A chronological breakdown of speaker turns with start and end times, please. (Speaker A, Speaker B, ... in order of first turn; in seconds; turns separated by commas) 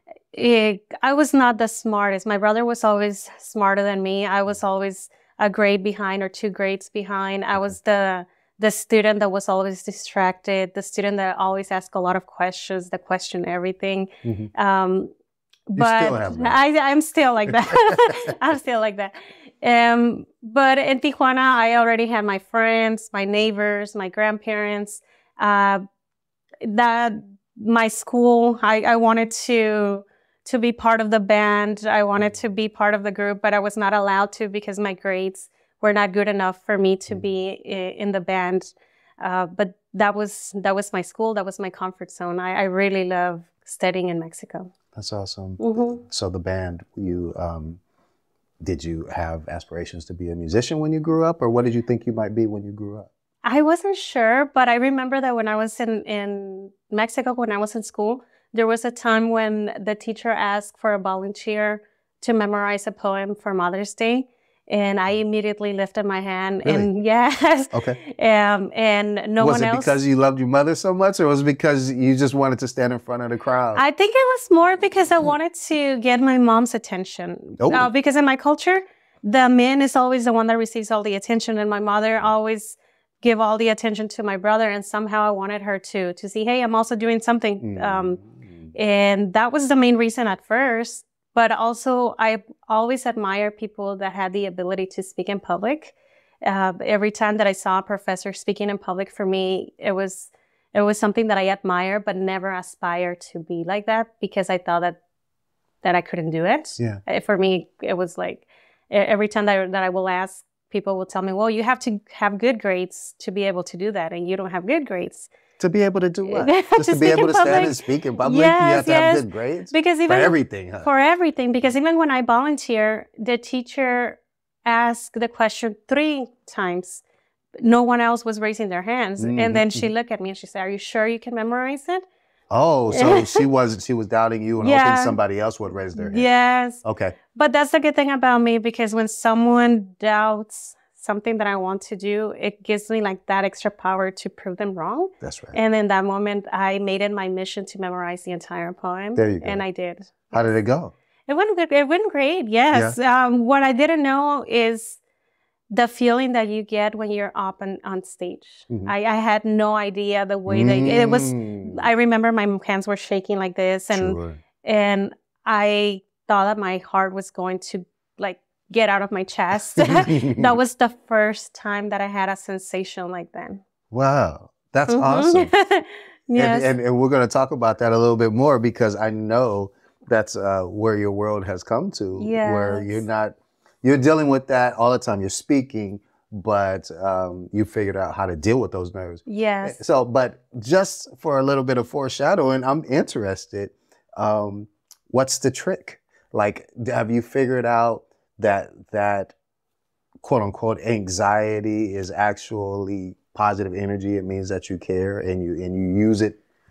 Speaker A: 0.3-15.1, Speaker B: 14.2-14.5, Speaker A: 15.7-25.8, Speaker B: 15.8-16.6, Speaker B: 17.5-18.1, Speaker A: 26.6-44.7, Speaker B: 44.9-47.8, Speaker A: 45.6-46.0, Speaker B: 48.6-53.1, Speaker A: 53.4-70.0, Speaker B: 66.6-66.9, Speaker B: 67.7-68.0, Speaker B: 69.4-73.8, Speaker A: 73.8-88.2, Speaker B: 77.6-77.9, Speaker B: 87.6-88.7, Speaker A: 88.7-105.0, Speaker A: 105.8-115.3, Speaker B: 115.6-120.9, Speaker A: 116.3-127.0, Speaker A: 127.6-132.1, Speaker B: 129.2-129.9, Speaker B: 132.5-136.3, Speaker A: 132.9-133.4, Speaker A: 134.6-135.2, Speaker A: 136.0-150.6, Speaker B: 136.8-137.2, Speaker B: 145.2-145.6, Speaker B: 149.2-149.6, Speaker B: 150.3-150.9, Speaker A: 151.3-155.0, Speaker B: 152.7-153.0, Speaker A: 155.7-173.6, Speaker B: 160.5-161.9, Speaker B: 163.9-164.4, Speaker B: 169.8-170.6, Speaker B: 173.9-175.6, Speaker A: 174.9-176.7, Speaker B: 176.3-199.3, Speaker A: 182.2-183.0, Speaker A: 189.3-189.8, Speaker B: 200.2-206.4